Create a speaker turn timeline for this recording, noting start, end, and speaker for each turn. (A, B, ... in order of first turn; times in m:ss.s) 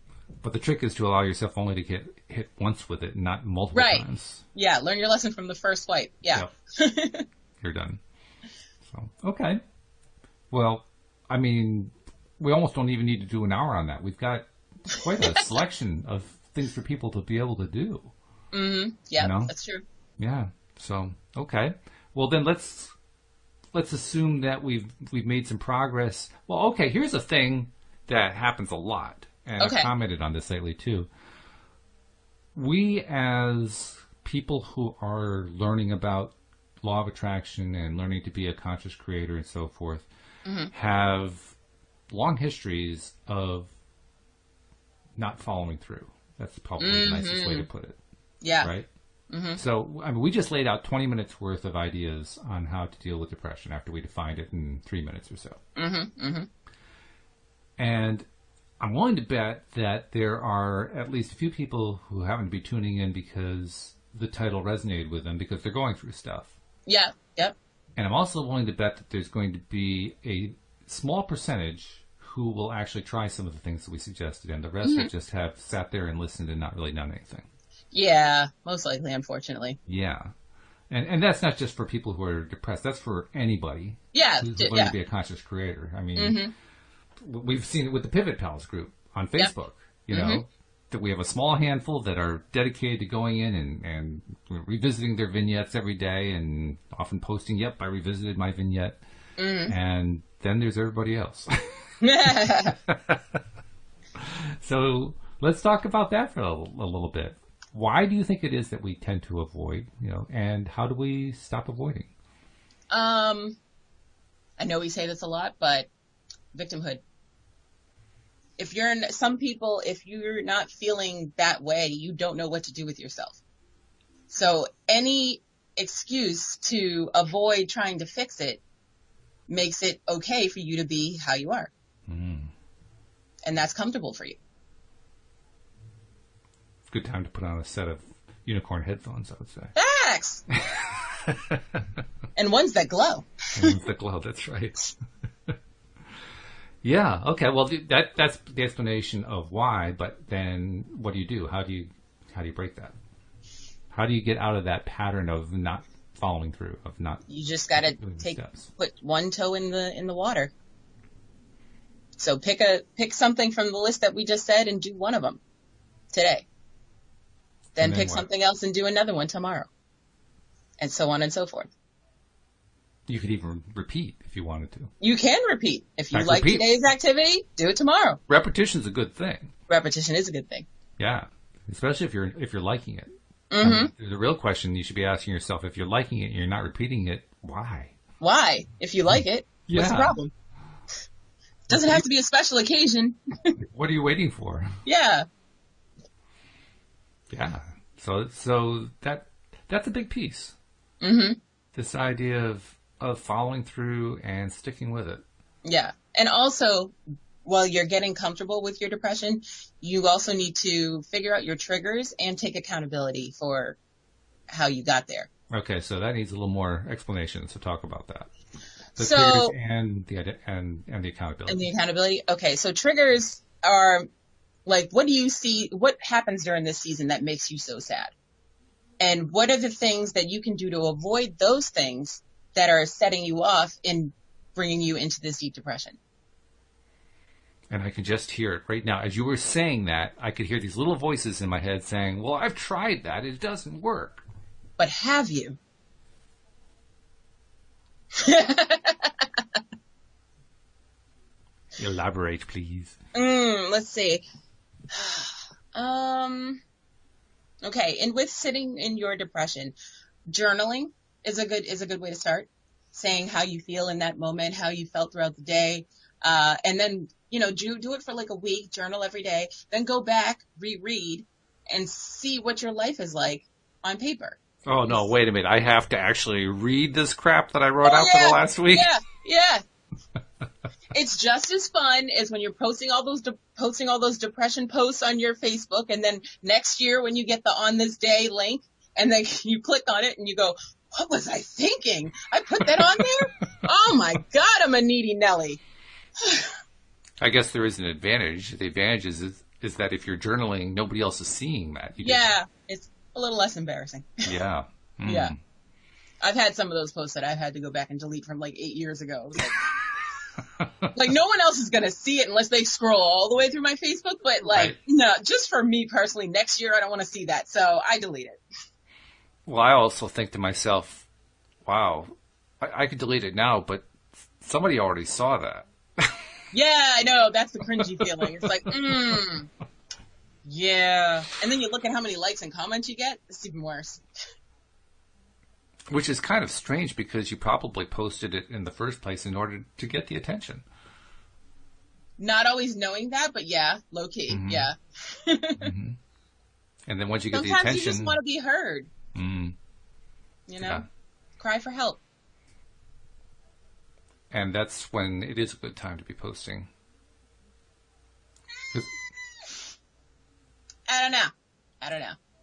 0:00.4-0:04.4 A
0:03.7-0:07.3 B
0:07.6-0:08.0 A
0:08.8-0:09.6 A
0:10.5-0:18.1 A
0:15.0-0:15.5 B
0:18.5-0:19.8 B
0:19.2-0:19.5 A
0:20.2-0:22.9 A
0:23.7-0:31.1 A
0:29.6-0:29.9 B
0:32.5-0:40.1 A
0:40.4-0:40.7 B
0:40.7-0:41.5 A
0:42.1-0:43.7 A
0:45.2-0:48.0 A
0:46.8-0:47.7 B
0:48.4-0:48.7 B
0:48.6-0:48.9 A
0:49.3-0:49.6 B
0:49.6-0:55.6 A
0:55.8-0:56.5 B
0:57.8-0:58.2 A
0:58.8-1:06.6 A
1:06.8-1:07.6 B
1:08.0-1:17.4 A
1:14.8-1:15.1 B
1:17.9-1:19.8 B
1:19.9-1:20.3 A
1:20.9-1:26.4 A
1:24.1-1:24.9 B
1:26.2-1:26.5 B
1:27.2-1:39.0 A
1:30.1-1:30.4 B
1:39.4-1:39.7 B
1:39.7-1:41.5 A
1:42.0-1:42.8 B
1:42.2-1:43.4 A
1:44.1-1:52.1 A
1:52.9-1:53.6 B
1:54.6-1:55.9 B
1:56.5-1:57.0 B
1:58.6-2:03.4 B
2:04.3-2:08.6 B
2:09.5-2:11.7 B
2:12.1-2:12.5 A
2:13.4-2:14.4 B
2:16.9-2:19.7 A
2:19.7-2:20.4 B
2:20.5-2:21.8 A
2:22.4-2:23.8 B
2:23.5-2:24.9 A
2:26.8-2:32.9 A
2:33.9-2:37.2 A
2:37.3-2:40.5 B
2:37.8-2:38.7 A
2:42.2-2:45.4 B
2:46.1-2:46.4 B
2:47.8-2:49.7 B
2:47.8-2:48.3 A
2:50.8-2:51.7 B
2:53.1-2:54.9 A
2:55.0-2:58.2 B
2:56.1-2:56.7 A
2:58.3-2:59.5 A
2:59.7-3:00.6 B
3:01.0-3:07.9 A
3:03.5-3:03.9 B
3:08.2-3:10.3 B
3:09.7-3:10.2 A
3:11.7-3:13.6 B
3:11.7-3:12.0 A
3:13.6-3:14.8 A
3:14.8-3:15.2 B
3:17.3-3:20.5 A
3:21.0-3:21.4 B
3:21.7-3:25.2 A
3:25.6-3:33.8 B
3:34.5-3:35.3 B
3:35.5-3:38.3 A
3:39.0-3:39.5 B
3:39.0-3:41.7 A
3:41.5-3:44.1 B
3:44.6-3:48.1 B
3:49.0-3:56.0 B
3:57.7-4:04.2 A
4:04.8-4:05.6 B
4:08.1-4:09.4 B
4:11.8-4:13.0 A
4:13.1-4:14.2 B
4:14.9-4:16.6 B
4:17.6-4:19.7 B
4:20.3-4:35.1 B
4:34.6-4:38.9 A
4:37.8-4:39.6 B
4:40.9-4:55.6 B
4:52.6-4:53.1 A
4:56.2-4:56.5 B
4:57.2-5:02.3 A
5:02.0-5:04.3 B
5:04.2-5:05.3 A
5:05.0-5:05.3 B
5:06.2-5:09.7 B
5:10.6-5:10.9 A
5:10.9-5:18.4 B
5:14.4-5:14.8 A
5:19.4-5:21.0 A
5:21.6-5:23.9 A
5:24.4-5:26.2 A
5:26.5-5:29.5 B
5:27.8-5:29.3 A
5:30.4-5:34.0 B
5:35.9-5:40.6 A
5:42.2-5:45.7 B
5:44.3-5:44.7 A
5:45.6-5:46.0 A
5:46.9-5:48.2 A
5:47.3-5:48.9 B
5:49.1-5:49.6 A
5:50.5-5:50.8 B
5:51.4-5:52.0 B
5:54.3-5:56.7 A
6:00.9-6:02.2 B